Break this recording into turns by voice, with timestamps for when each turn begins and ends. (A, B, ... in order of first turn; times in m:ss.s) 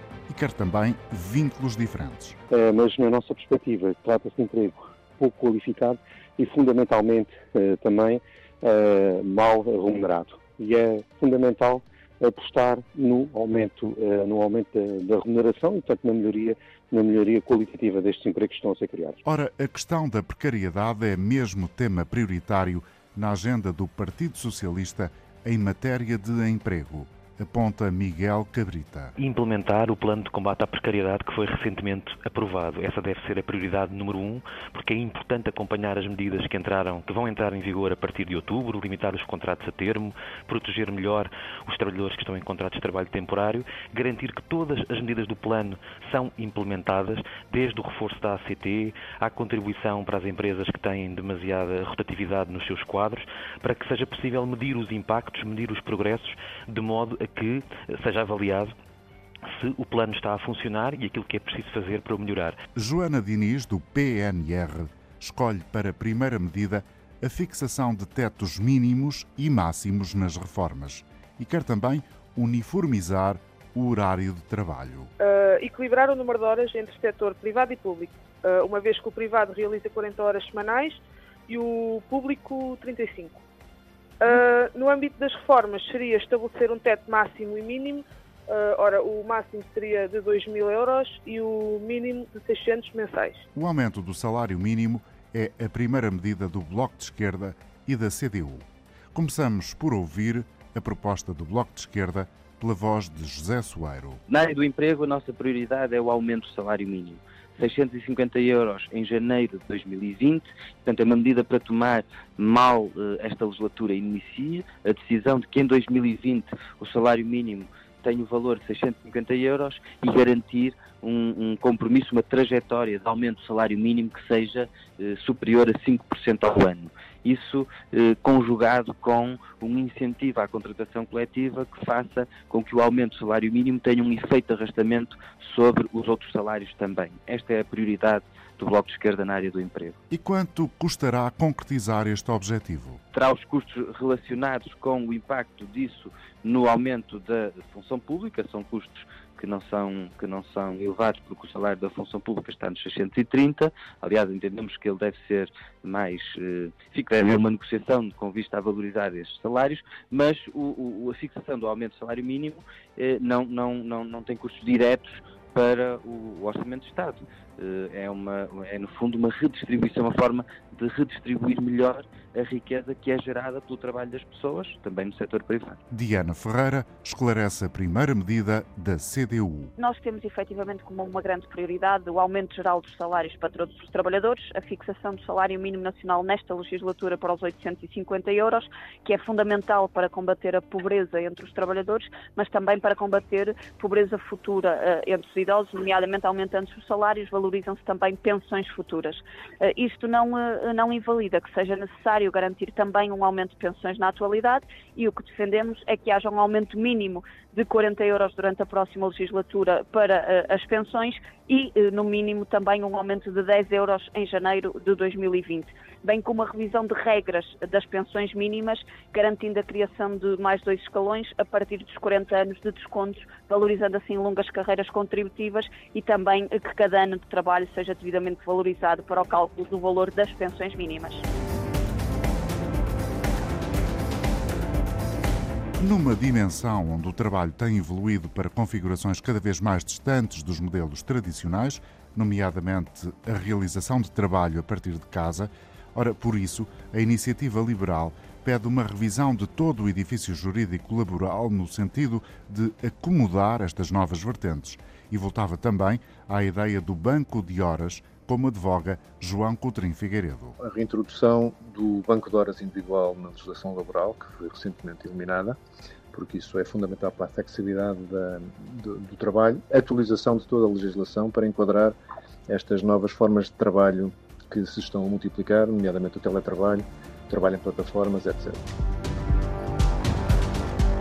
0:00.3-0:02.4 A
0:02.5-0:19.2 B
0:19.2-0:29.1 A
0:29.2-0:58.7 C
0:59.4-1:02.6 C
1:02.7-1:15.1 A
1:15.2-1:23.4 D
1:24.2-1:33.4 D
1:33.5-1:44.2 A
1:44.3-2:20.0 E
2:20.1-2:23.0 A
2:23.1-2:55.8 E
2:55.9-2:59.7 A
2:59.8-3:51.2 F
3:55.8-4:20.6 A
4:20.6-4:25.6 G
4:26.1-4:32.0 G
4:32.5-4:38.6 G